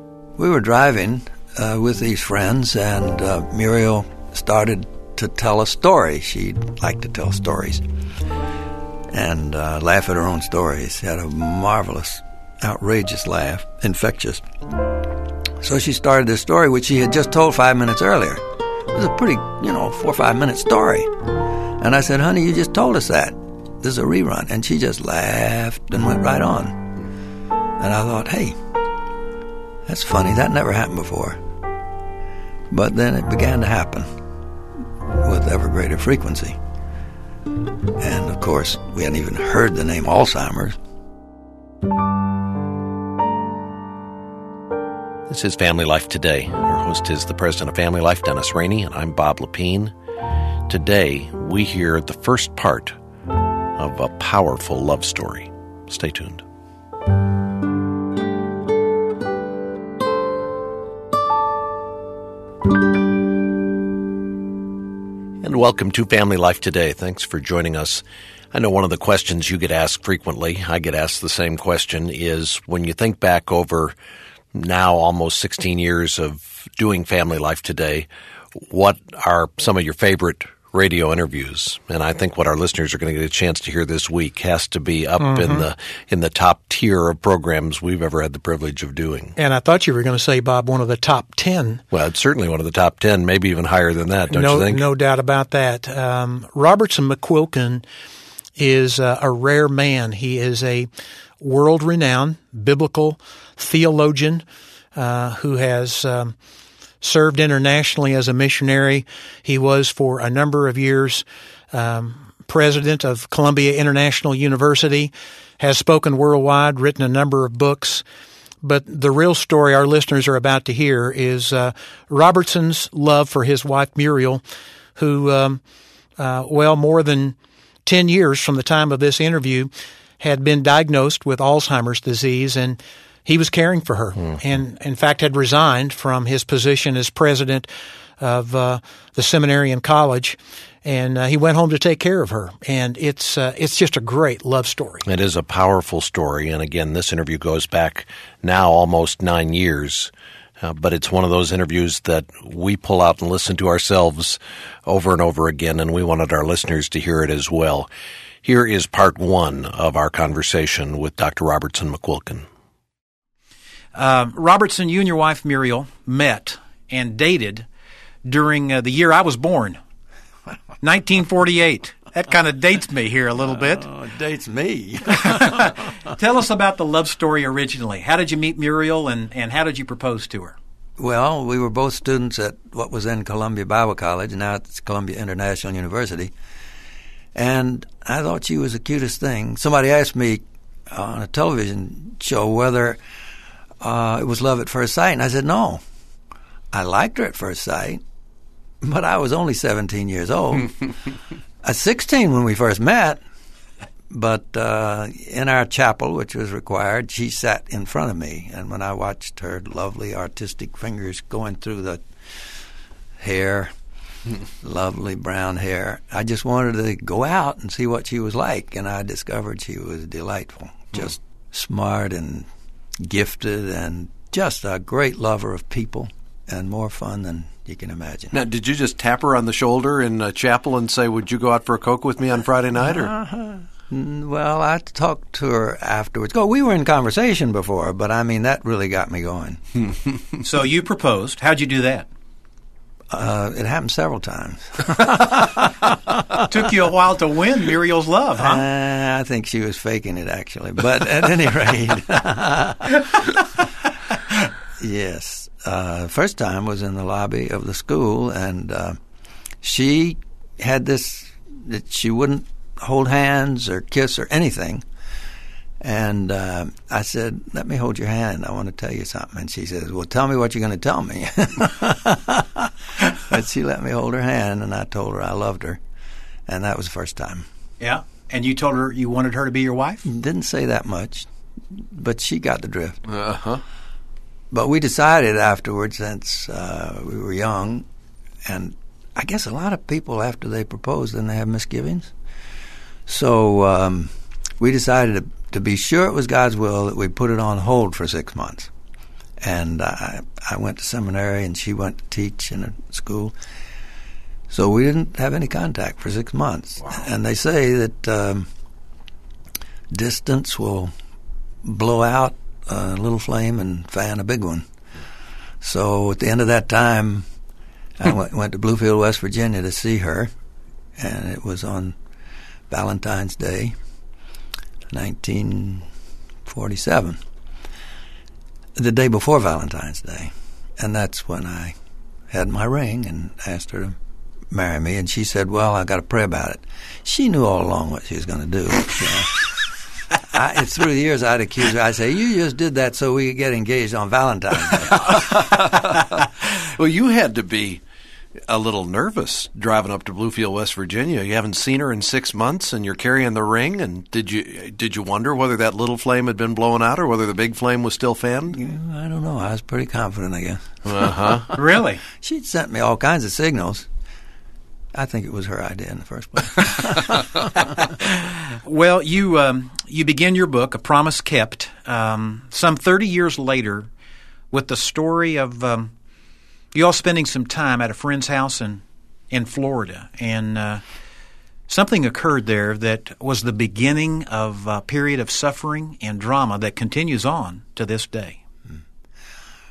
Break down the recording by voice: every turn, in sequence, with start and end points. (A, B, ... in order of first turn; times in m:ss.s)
0:00.4-0:07.8 A
0:09.1-0:14.4 A
0:15.6-0:21.1 A
0:21.8-0:26.8 A
0:27.8-0:28.6 A
0:29.9-0:31.4 A
0:32.7-0:34.1 A
0:35.1-0:36.6 A
0:38.0-0:40.8 A
0:45.3-0:49.9 B
0:50.7-0:52.9 B
0:53.8-0:56.4 B
1:05.4-1:13.9 B
1:14.5-1:29.4 B
1:25.2-1:25.6 C
1:29.4-1:31.8 C
1:31.9-1:34.8 B
1:34.3-1:37.8 C
1:38.6-1:40.9 C
1:41.4-1:44.4 C
1:44.9-1:46.3 C
1:47.0-1:58.0 C
1:58.6-2:04.4 C
2:05.0-2:05.6 C
2:06.2-2:17.7 C
2:18.2-2:25.0 C
2:25.0-2:37.9 B
2:38.4-2:42.5 B
2:43.9-2:47.7 C
2:48.2-2:49.8 C
2:50.8-2:53.9 C
2:53.6-2:55.8 A
2:55.2-3:00.6 C
3:01.0-3:06.3 A
3:07.3-3:13.0 A
3:13.8-3:15.8 A
3:16.7-3:18.0 A
3:18.8-3:23.2 A
3:24.1-3:32.5 A
3:33.2-3:33.7 A
3:34.6-3:42.5 A
3:43.0-3:48.4 A
3:48.3-3:53.1 B
3:52.8-3:59.6 A
4:00.4-4:02.1 C
4:03.1-4:06.7 A
4:06.4-4:08.6 C
4:08.4-4:13.3 A
4:14.8-4:19.0 A
4:19.6-4:24.8 A
4:25.8-4:35.8 A
4:36.5-4:37.5 A
4:37.8-4:40.0 C
4:40.0-4:43.0 A
4:43.1-4:43.6 B
4:44.5-4:47.9 A
4:48.4-4:52.1 A
4:53.1-4:58.7 A
4:59.4-5:03.3 A
5:04.5-5:08.5 A
5:09.9-5:10.9 A
5:11.6-5:14.7 A
5:15.6-5:17.2 A
5:18.0-5:20.3 A
5:21.0-5:22.0 A
5:22.7-5:23.8 A
5:24.9-5:25.9 A
5:26.4-5:27.2 A
5:28.8-5:31.8 A
5:32.3-5:34.0 A
5:34.5-5:39.5 A
5:40.2-5:45.1 A
5:45.0-5:47.8 B
5:48.5-5:58.6 B
5:58.5-6:01.4 A
6:00.8-6:01.5 B
6:01.5-6:02.0 C
6:02.2-6:03.9 A
6:04.9-6:07.8 A
6:07.9-6:13.9 C
6:14.5-6:15.9 C
6:16.7-6:20.8 C
6:21.7-6:28.4 C